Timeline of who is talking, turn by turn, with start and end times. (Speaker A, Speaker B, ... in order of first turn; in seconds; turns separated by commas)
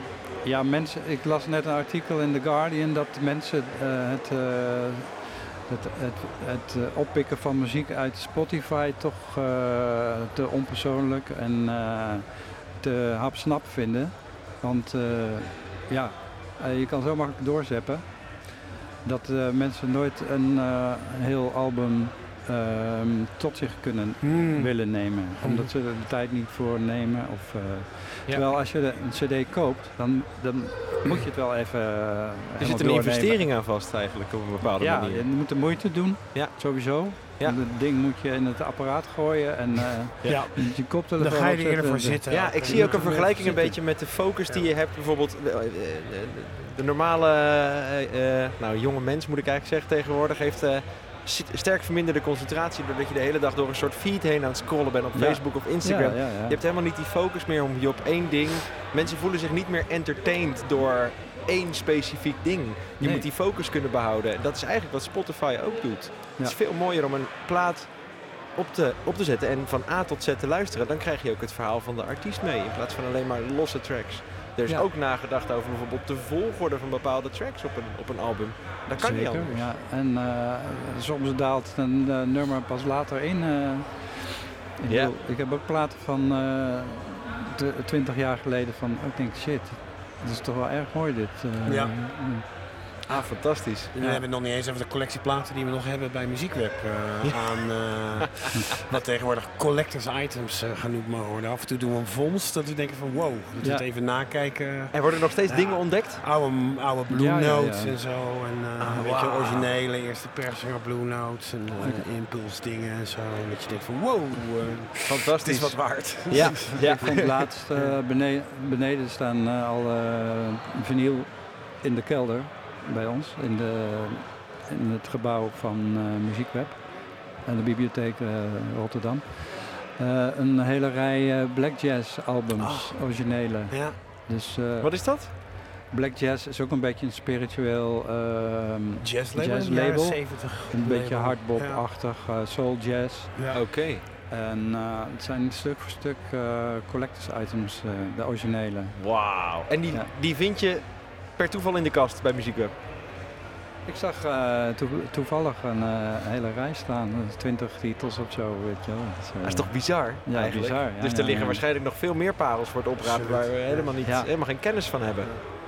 Speaker A: 0.4-33.6, Speaker B: 24.2-25.7, Speaker C: 32.6-35.3, Speaker A: 34.6-43.8, Speaker C: 36.3-37.6, Speaker C: 40.2-40.5, Speaker B: 40.2-44.7, Speaker C: 42.3-79.7, Speaker A: 55.1-56.6, Speaker A: 63.0-63.3, Speaker A: 79.0-92.5, Speaker B: 91.6-91.9, Speaker C: 93.1-93.9, Speaker A: 93.9-94.2, Speaker B: 93.9-117.2, Speaker A: 103.6-103.8, Speaker C: 104.9-106.2, Speaker A: 107.1-108.0, Speaker C: 108.8-109.7, Speaker A: 111.8-112.0, Speaker C: 115.1-117.5, Speaker A: 116.4-143.5, Speaker B: 117.7-118.0, Speaker B: 132.6-134.0, Speaker C: 134.8-135.3, Speaker B: 139.0-141.8, Speaker B: 143.3-143.6, Speaker C: 143.5-144.0, Speaker A: 144.3-149.2, Speaker C: 148.9-152.7, Speaker A: 153.8-161.6, Speaker C: 159.4-165.3, Speaker B: 163.0-164.0, Speaker A: 164.0-164.3